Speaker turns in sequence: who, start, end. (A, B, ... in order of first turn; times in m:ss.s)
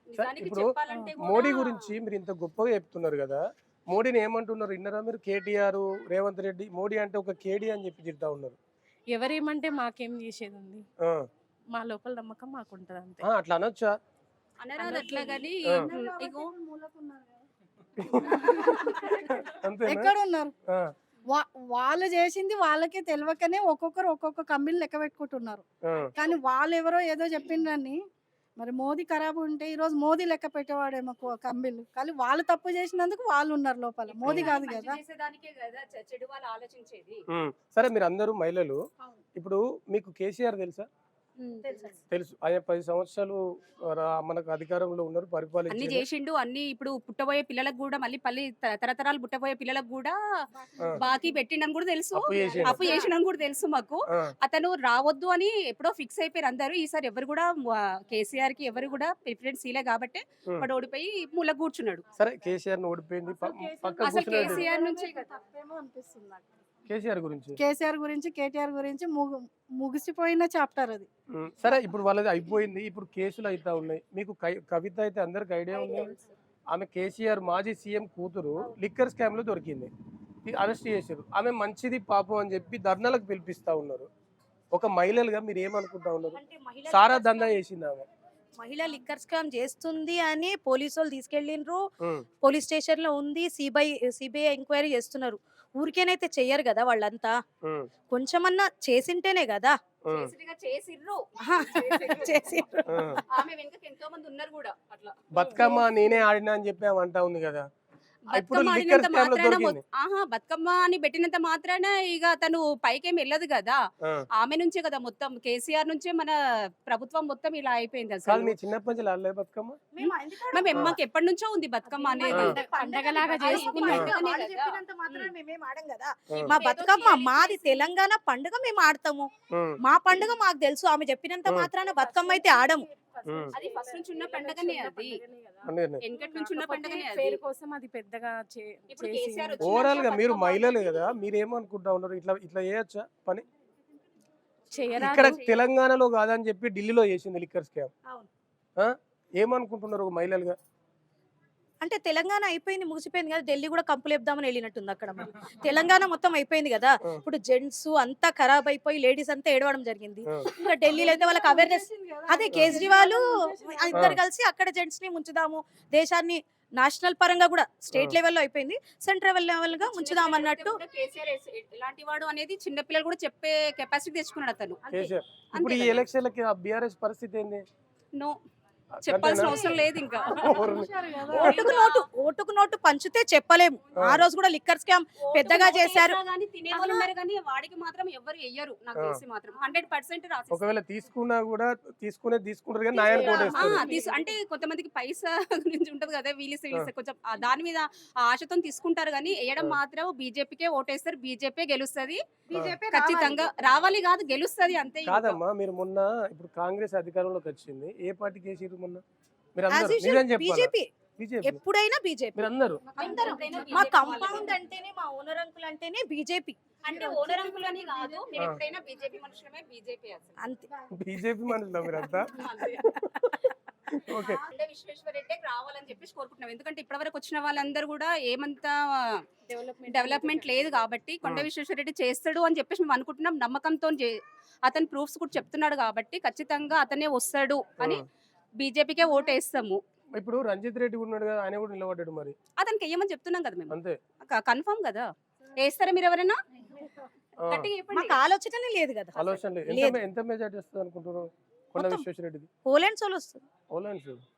0:00.1-0:01.9 A
0:00.2-0:08.6 B
0:09.1-0:10.9 C
0:11.7-0:13.3 C
0:13.2-0:14.0 B
0:14.6-0:16.5 A
0:14.8-0:15.5 C
0:14.8-0:17.5 D
0:18.0-0:20.1 B
0:18.0-0:20.5 D
0:18.5-0:19.2 A
0:21.3-0:28.0 D
0:25.8-0:26.1 B
0:28.6-0:35.0 D
0:34.1-0:37.2 A
0:37.3-0:38.8 B
0:39.4-0:40.9 B
0:41.4-0:41.8 A
0:41.6-0:41.9 E
0:42.1-0:46.1 B
0:45.7-1:02.1 A
0:50.7-0:51.2 D
0:52.2-0:52.8 B
0:52.6-0:53.1 D
1:02.2-1:04.7 B
1:03.3-1:06.4 D
1:04.0-1:05.2 A
1:06.9-1:07.6 B
1:07.6-1:11.1 D
1:11.4-1:16.2 B
1:16.7-1:19.9 B
1:20.4-1:24.1 B
1:24.7-1:28.1 B
1:26.3-1:27.6 E
1:28.6-1:31.8 E
1:32.4-1:37.4 E
1:38.1-1:39.8 E
1:40.1-1:40.3 B
1:40.1-1:42.5 A
1:41.4-1:43.2 E
1:42.9-1:43.2 B
1:43.3-1:45.6 A
1:45.3-1:47.7 B
1:45.4-1:45.9 E
1:48.3-1:53.8 A
1:48.3-1:49.8 B
1:54.4-1:58.6 A
1:58.3-1:59.8 B
1:59.9-2:01.0 E
2:00.0-2:02.6 A
2:01.9-2:12.9 E
2:02.2-2:03.9 C
2:03.4-2:05.3 A
2:06.3-2:06.6 B
2:06.5-2:07.9 A
2:09.5-2:09.8 B
2:11.4-2:11.7 B
2:11.9-2:19.9 C
2:13.2-2:13.5 B
2:13.5-2:15.2 A
2:15.7-2:16.0 B
2:16.0-2:17.4 A
2:18.9-2:21.1 A
2:19.6-2:23.4 B
2:24.7-2:25.4 C
2:25.0-2:27.9 B
2:25.1-2:25.6 A
2:28.8-2:30.6 B
2:31.8-2:50.8 E
2:40.6-2:44.1 D
2:42.5-2:42.8 B
2:43.9-2:44.2 B
2:49.8-2:54.9 A
2:54.9-2:57.6 B
2:55.5-2:56.1 A
2:59.0-2:59.8 B
2:59.1-3:00.7 A
3:00.2-3:01.6 D
3:00.4-3:00.9 B
3:01.3-3:06.2 E
3:01.4-3:02.1 A
3:04.0-3:04.3 B
3:05.2-3:10.7 A
3:06.7-3:07.1 E
3:10.5-3:13.8 B
3:12.9-3:14.4 C
3:13.1-3:22.2 A
3:22.5-3:24.0 E
3:22.5-3:22.8 B
3:22.9-3:25.4 A
3:25.1-3:29.0 B
3:29.6-3:31.6 B
3:29.7-3:30.9 E
3:31.4-3:37.8 E
3:32.4-3:32.9 B
3:32.8-3:34.5 D
3:33.0-3:34.5 A
3:36.8-3:40.4 A
3:36.9-3:38.3 D
3:40.4-3:40.7 E
3:40.9-3:42.4 B
3:41.8-3:42.1 E
3:42.3-3:42.8 A
3:43.0-3:43.3 B
3:43.9-3:44.4 B
3:44.5-3:49.2 A
3:49.5-3:50.9 C
3:49.9-3:54.2 A
3:54.7-3:58.0 A
3:58.6-3:59.8 A
4:00.2-4:02.4 B
4:02.6-4:06.4 A
4:03.7-4:04.0 B
4:07.4-4:07.7 B
4:07.5-4:08.2 A
4:07.9-4:10.0 E
4:09.2-4:12.5 B
4:11.8-4:12.0 E
4:12.6-4:13.4 E
4:13.7-4:14.2 B